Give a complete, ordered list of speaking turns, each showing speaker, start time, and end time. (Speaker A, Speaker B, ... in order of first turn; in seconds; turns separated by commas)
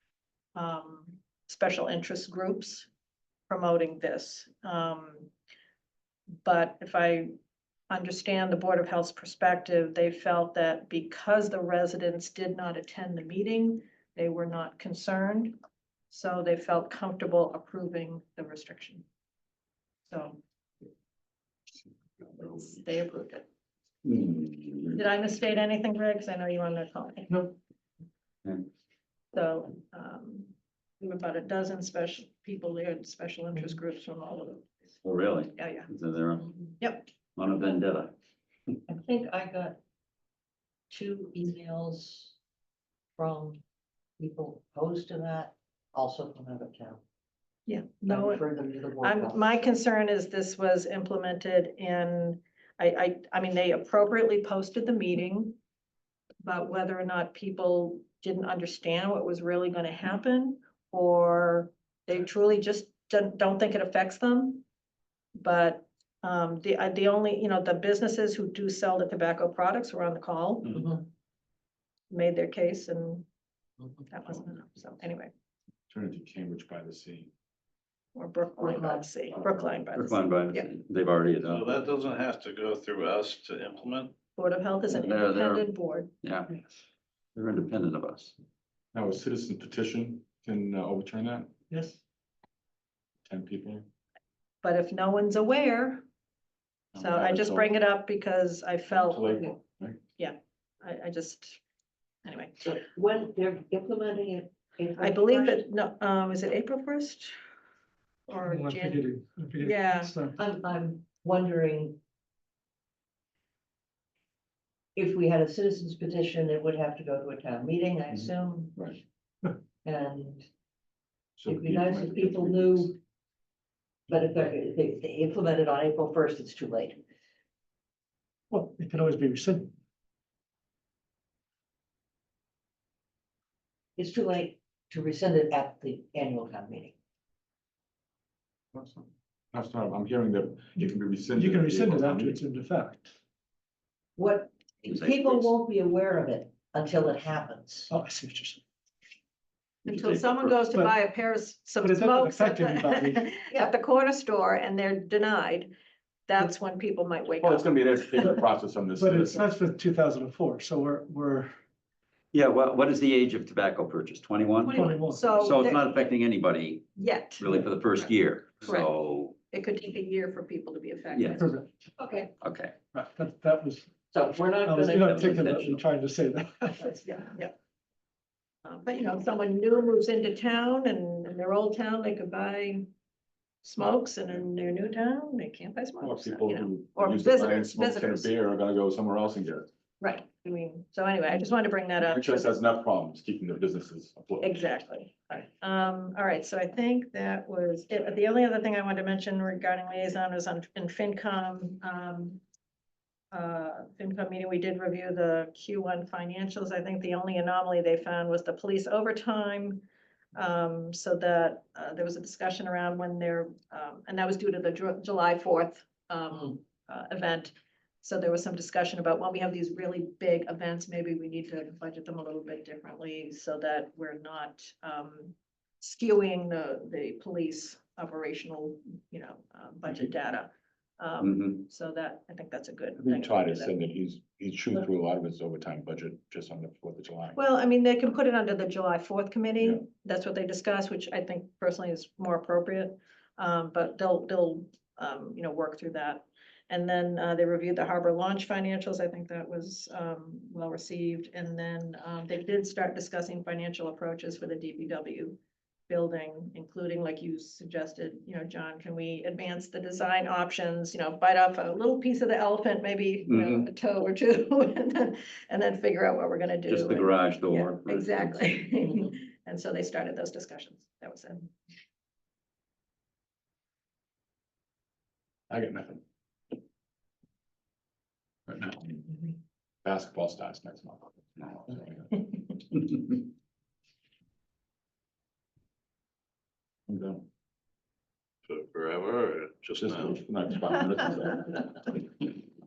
Speaker A: 0.6-2.9, Speaker A: 3.5-5.3, Speaker A: 6.4-7.3, Speaker A: 7.9-15.6, Speaker A: 16.1-19.1, Speaker A: 20.1-20.4, Speaker B: 22.2-22.8, Speaker A: 22.4-23.5, Speaker C: 24.1-25.0, Speaker A: 24.9-27.4, Speaker A: 29.3-34.7, Speaker C: 35.0-36.5, Speaker A: 35.6-35.9, Speaker A: 36.8-37.1, Speaker C: 37.4-38.1, Speaker D: 38.9-39.8, Speaker D: 40.9-42.4, Speaker D: 43.2-43.6, Speaker D: 44.2-47.0, Speaker A: 47.7-48.5, Speaker D: 48.1-49.5, Speaker A: 49.0-55.6, Speaker A: 56.4-64.7, Speaker A: 65.3-70.8, Speaker D: 70.7-71.0, Speaker A: 72.1-73.3, Speaker A: 74.1-75.3, Speaker B: 75.9-77.3, Speaker A: 78.1-80.7, Speaker D: 78.6-79.1, Speaker C: 79.9-81.8, Speaker E: 81.5-84.2, Speaker A: 84.4-86.1, Speaker C: 84.9-85.7, Speaker C: 86.2-86.5, Speaker C: 87.3-88.3, Speaker B: 88.9-91.5, Speaker F: 91.7-92.0, Speaker B: 93.3-93.8, Speaker A: 94.6-96.0, Speaker B: 96.9-97.7, Speaker A: 97.0-99.5, Speaker B: 98.9-100.0, Speaker A: 100.2-101.6, Speaker A: 102.2-102.7, Speaker D: 102.6-105.6, Speaker A: 105.0-107.3, Speaker A: 108.3-109.1, Speaker F: 108.4-110.4, Speaker A: 109.6-110.1, Speaker D: 110.4-112.0, Speaker D: 115.0-118.8, Speaker B: 118.1-119.0, Speaker D: 119.8-120.5, Speaker B: 121.4-122.9, Speaker D: 121.5-123.0, Speaker D: 124.1-127.0, Speaker F: 128.5-129.7, Speaker D: 134.0-136.9, Speaker B: 138.7-142.4, Speaker F: 141.3-143.1, Speaker D: 144.2-147.9, Speaker C: 144.9-145.5, Speaker F: 147.9-148.6, Speaker A: 149.8-155.7, Speaker C: 149.9-150.6, Speaker F: 151.8-153.3, Speaker A: 156.3-158.4, Speaker B: 157.4-159.4, Speaker F: 158.9-161.5, Speaker C: 162.3-164.8, Speaker A: 164.7-165.8, Speaker F: 164.7-165.4, Speaker C: 165.3-166.9, Speaker A: 167.0-168.1, Speaker C: 167.4-169.3, Speaker A: 168.6-168.9, Speaker A: 169.5-171.5, Speaker C: 171.1-171.4, Speaker F: 171.4-171.9, Speaker D: 172.0-172.3, Speaker C: 172.4-172.8, Speaker F: 172.9-173.9, Speaker D: 174.1-175.3, Speaker F: 174.6-177.0, Speaker C: 175.0-175.8, Speaker A: 177.0-177.5, Speaker A: 178.6-182.8, Speaker A: 183.6-188.3, Speaker B: 186.0-189.7, Speaker A: 190.0-192.6, Speaker B: 192.0-194.6, Speaker A: 194.4-202.4, Speaker A: 203.3-233.7, Speaker C: 231.2-231.6, Speaker B: 233.0-237.4, Speaker A: 237.3-271.5, Speaker C: 263.3-263.7, Speaker C: 266.7-268.6, Speaker B: 275.5-276.0, Speaker B: 278.5-279.1, Speaker B: 279.8-282.3, Speaker B: 286.9-287.3, Speaker E: 288.5-290.8, Speaker B: 289.8-291.6